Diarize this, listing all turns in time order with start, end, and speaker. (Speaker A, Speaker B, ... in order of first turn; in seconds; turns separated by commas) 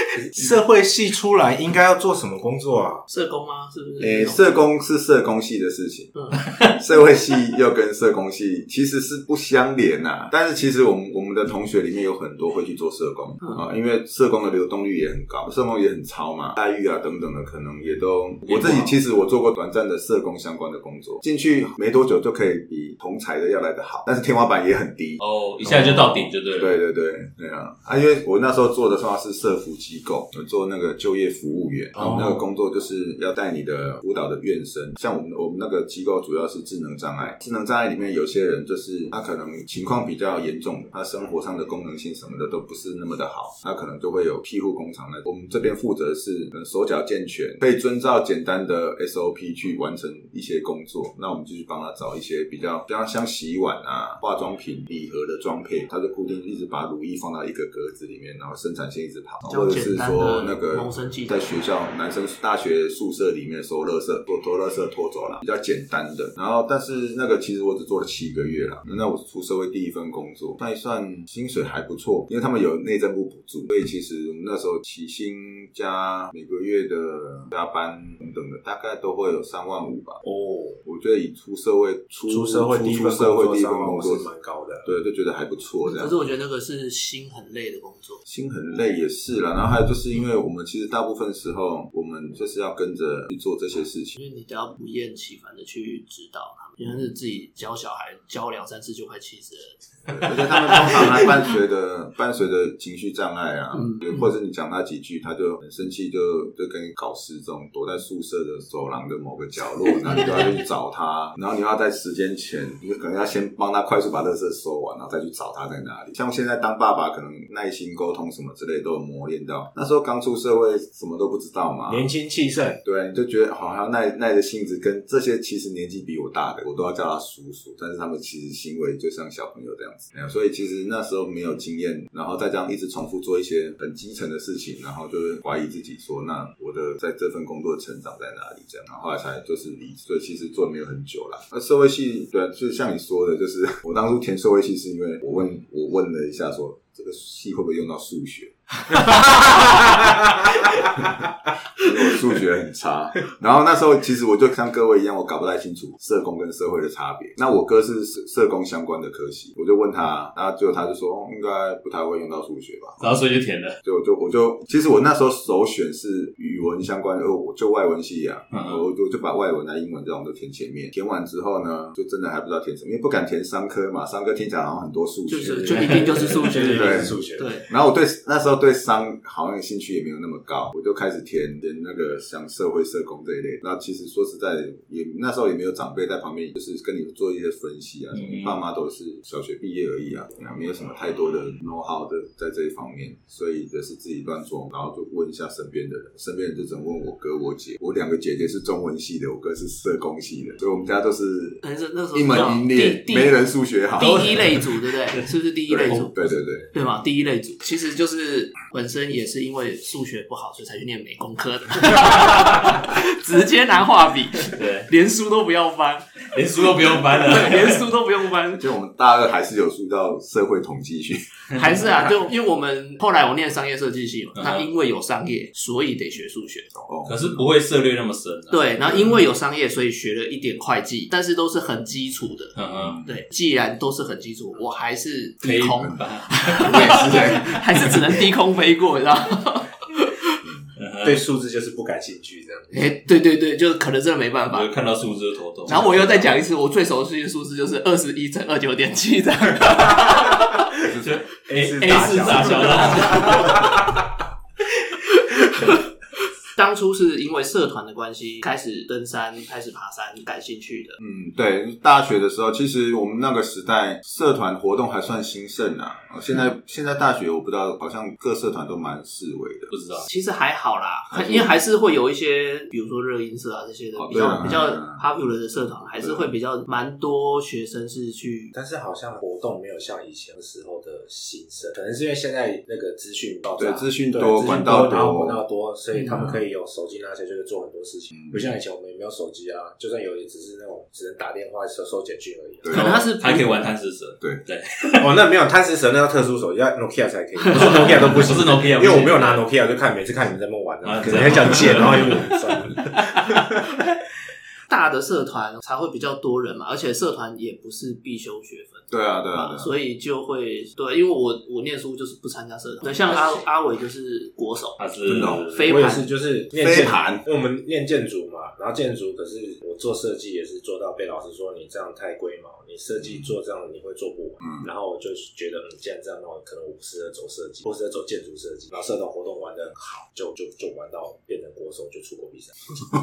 Speaker A: 0.1-3.0, Speaker B: 3.1-4.6, Speaker C: 4.0-80.2, Speaker D: 18.4-18.9, Speaker D: 25.2-26.8, Speaker A: 32.0-32.4, Speaker B: 59.5-61.5, Speaker A: 80.2-80.8, Speaker C: 80.8-84.3, Speaker A: 82.3-84.9, Speaker C: 84.8-86.2, Speaker B: 85.8-88.2, Speaker C: 88.2-94.2, Speaker B: 94.2-101.4, Speaker C: 100.2-122.1, Speaker B: 103.7-104.3, Speaker B: 110.0-110.4, Speaker A: 121.9-122.8, Speaker C: 122.8-148.5, Speaker C: 150.8-163.0, Speaker D: 163.0-163.8, Speaker C: 163.8-201.6, Speaker D: 168.5-168.8, Speaker B: 175.3-177.7, Speaker A: 175.4-177.6, Speaker D: 188.1-188.6, Speaker B: 201.6-203.4, Speaker C: 202.1-204.6, Speaker B: 203.9-206.1, Speaker C: 205.7-206.7, Speaker D: 205.9-206.7, Speaker B: 206.7-218.7, Speaker D: 214.5-214.9, Speaker D: 216.3-217.9, Speaker C: 218.6-221.3, Speaker D: 221.5-221.8, Speaker B: 221.6-226.7, Speaker D: 224.3-224.7, Speaker C: 226.7-227.4, Speaker D: 227.1-228.8, Speaker B: 228.5-240.4, Speaker C: 228.9-229.2, Speaker D: 232.6-233.0, Speaker C: 232.7-233.2, Speaker D: 235.4-237.1, Speaker C: 236.6-237.9, Speaker D: 240.7-241.2, Speaker A: 241.0-242.8, Speaker B: 242.7-244.7, Speaker D: 244.5-246.3, Speaker B: 245.7-250.7, Speaker A: 250.0-250.2, Speaker C: 250.8-251.2, Speaker D: 251.0-253.7, Speaker A: 251.5-254.0, Speaker B: 252.2-253.8, Speaker B: 254.7-255.9, Speaker B: 256.5-261.0, Speaker C: 261.0-269.7, Speaker D: 269.7-270.1, Speaker B: 270.0-278.5, Speaker C: 271.1-271.5, Speaker C: 273.9-275.0, Speaker C: 276.0-276.3, Speaker A: 278.5-292.7, Speaker C: 283.6-285.4, Speaker B: 285.9-286.3, Speaker C: 286.1-286.4, Speaker C: 288.1-288.5, Speaker C: 292.6-293.0, Speaker B: 292.7-293.6, Speaker D: 292.7-295.1, Speaker A: 295.0-303.4, Speaker D: 297.5-299.4, Speaker D: 300.8-303.8, Speaker B: 304.7-316.1, Speaker C: 308.9-309.7, Speaker D: 313.0-313.4, Speaker D: 314.8-315.7, Speaker C: 315.1-315.4, Speaker A: 315.6-332.8, Speaker C: 316.5-317.2, Speaker C: 323.0-323.3, Speaker C: 324.4-324.7